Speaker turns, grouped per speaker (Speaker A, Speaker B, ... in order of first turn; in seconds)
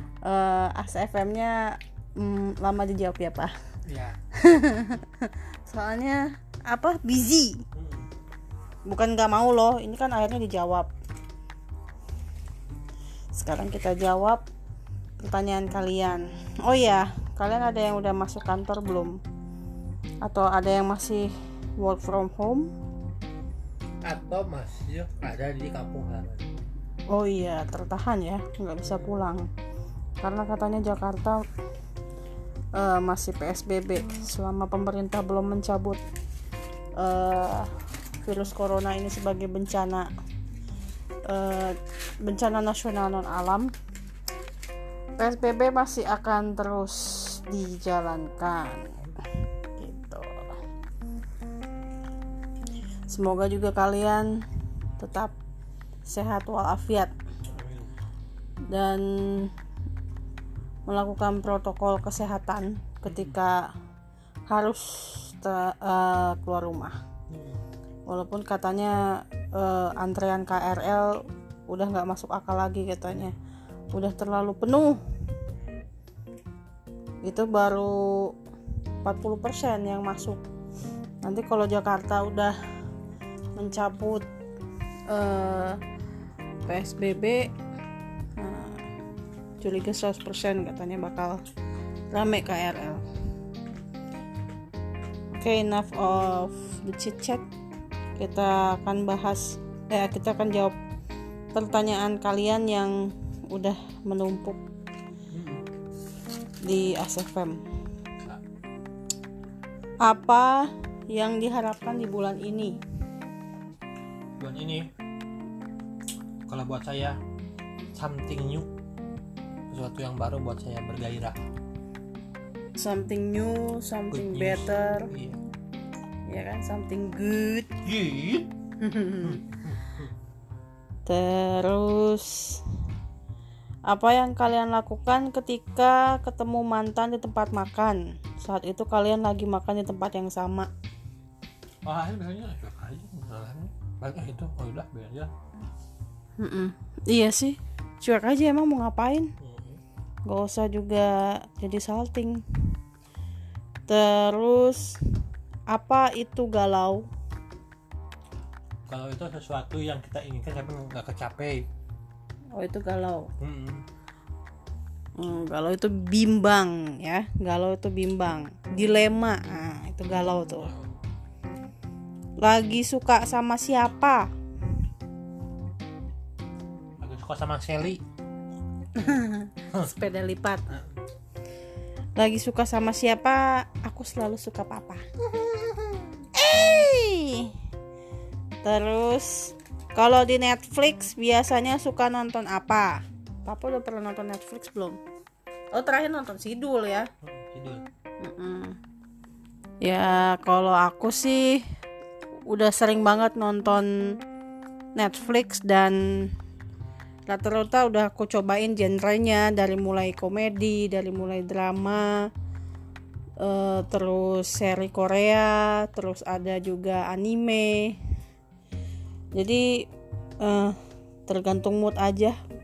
Speaker A: 0.2-3.5, 4.3-7.6, 8.8-10.9, 13.3-14.4, 15.2-19.2, 20.2-22.7, 27.1-29.5, 30.2-31.4, 32.7-36.0, 37.0-37.7, 38.2-40.1, 41.2-43.7, 45.2-49.0, 49.8-50.5, 53.1-54.4, 55.0-55.3, 56.0-57.1, 58.7-59.5, 60.9-63.7, 64.5-67.0, 68.1-73.3, 73.9-75.0, 77.2-78.3, 79.0-80.4, 81.2-82.5, 83.6-84.3, 85.1-85.8, 86.7-87.5, 88.4-88.8, 89.6-91.4, 92.1-93.0, 95.3-97.4, 98.2-100.8, 101.5-104.6, 106.6-107.6, 110.0-112.8, 122.8-125.1, 126.3-127.8, 128.8-129.4, 131.1-132.6, 133.9-140.7, 146.4-149.3, 150.3-152.4, 153.9-155.0, 155.7-157.0, 162.5-163.3, 165.2-170.7, 172.4-174.3, 178.9-180.6, 182.2-185.1, 186.3-187.5, 188.6-195.0, 195.7-197.1, 198.2-198.8, 199.8-201.6, 202.5-204.2, 204.9-206.3, 207.3-212.2, 213.4-218.0, 219.3-219.9, 220.4-222.4
Speaker B: 3.9-4.2, 7.7-8.1, 24.0-26.4, 28.8-29.1, 57.5-57.9, 63.0-63.4, 67.3-67.6, 73.1-73.3, 105.3-105.6, 114.4-114.8, 116.5-117.2, 117.9-118.7, 119.7-121.4, 124.1-125.4, 127.8-128.5, 129.2-130.1, 141.8-145.3, 149.4-149.8, 158.9-161.6, 163.4-163.8, 170.3-171.0, 177.0-178.0, 179.0-179.9, 180.7-181.0, 197.2-197.8